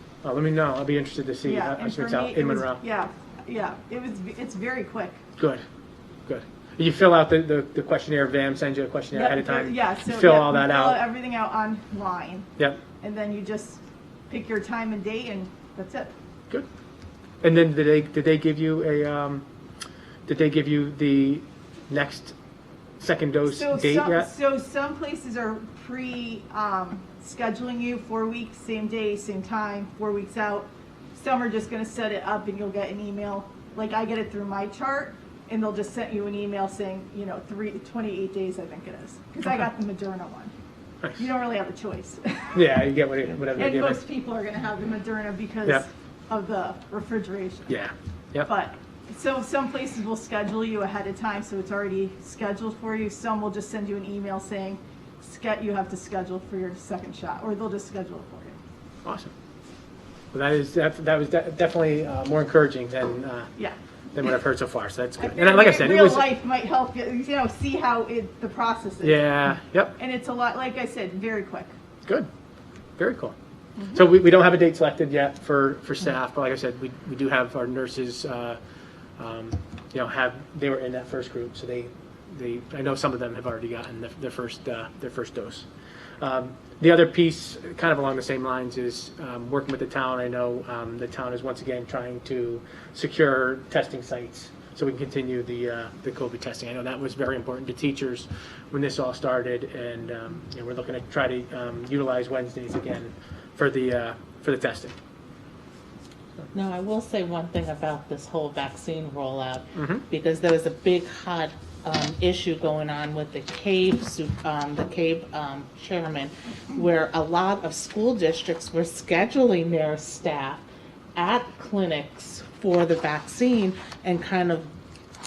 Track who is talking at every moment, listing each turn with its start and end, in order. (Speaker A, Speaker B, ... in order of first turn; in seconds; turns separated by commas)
Speaker A: 0.2-2.8, Speaker B: 1.4-5.2, Speaker A: 6.3-11.0, Speaker B: 9.1-16.1, Speaker A: 17.4-19.4, Speaker A: 20.3-22.4, Speaker A: 23.0-24.3, Speaker B: 23.5-40.5, Speaker B: 41.2-42.6, Speaker A: 42.5-44.0, Speaker B: 43.5-47.7, Speaker A: 47.7-48.5, Speaker B: 48.4-58.6, Speaker A: 59.0-59.3, Speaker A: 60.3-63.5, Speaker A: 64.1-66.3, Speaker B: 65.2-69.4, Speaker A: 69.0-70.0, Speaker B: 70.0-71.7, Speaker A: 73.0-73.3, Speaker B: 73.8-74.1, Speaker A: 73.9-78.6, Speaker A: 79.2-85.7, Speaker A: 86.2-105.0, Speaker C: 106.5-124.7, Speaker A: 109.8-110.0